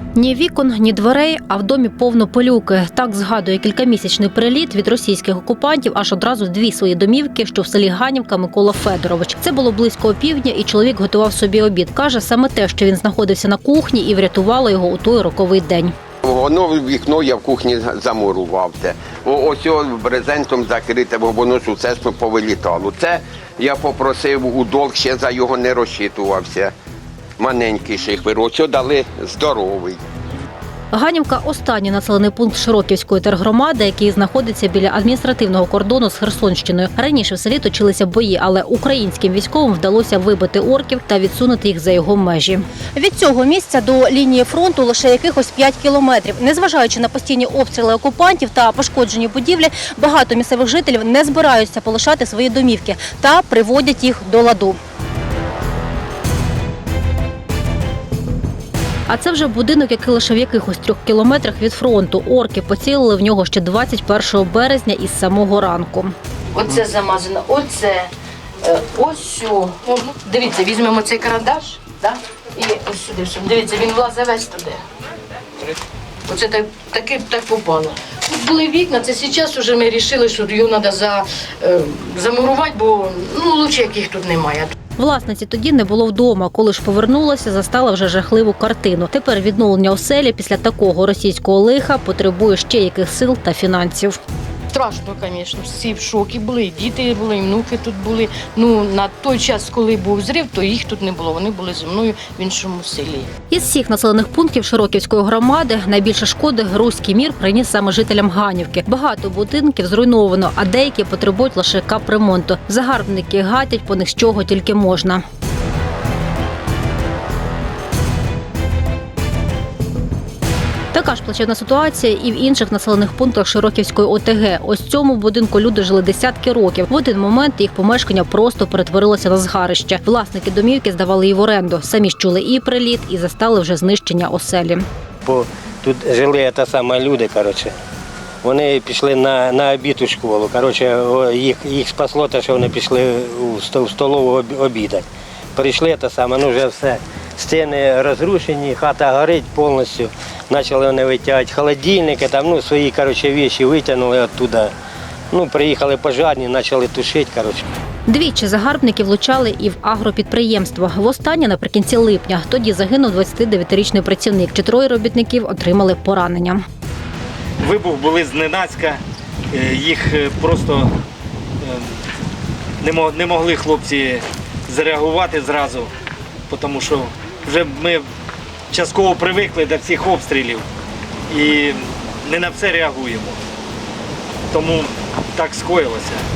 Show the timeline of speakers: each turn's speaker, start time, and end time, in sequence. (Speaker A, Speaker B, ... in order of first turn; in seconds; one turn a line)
Speaker A: 0.2-15.9
Speaker B: 16.2-26.7
Speaker B: 27.4-30.0
Speaker A: 30.9-54.8
Speaker A: 59.1-66.1
Speaker C: 66.5-68.1
Speaker C: 68.6-74.8
Speaker C: 76.3-84.7
Speaker A: 85.0-94.2
Speaker C: 94.7-103.3
Speaker A: 103.5-115.2
Speaker A: 120.9-134.8
Speaker D: 135.2-137.8
Speaker D: 138.4-154.7
Speaker D: 155.3-157.7
Speaker A: 158.1-166.6
Speaker E: 167.6-169.0
Speaker E: 169.5-170.9
Speaker E: 171.6-172.0
Speaker E: 172.8-175.9
Speaker E: 176.5-178.0
Speaker E: 178.7-180.7
Speaker E: 181.3-183.4
Speaker E: 184.5-186.2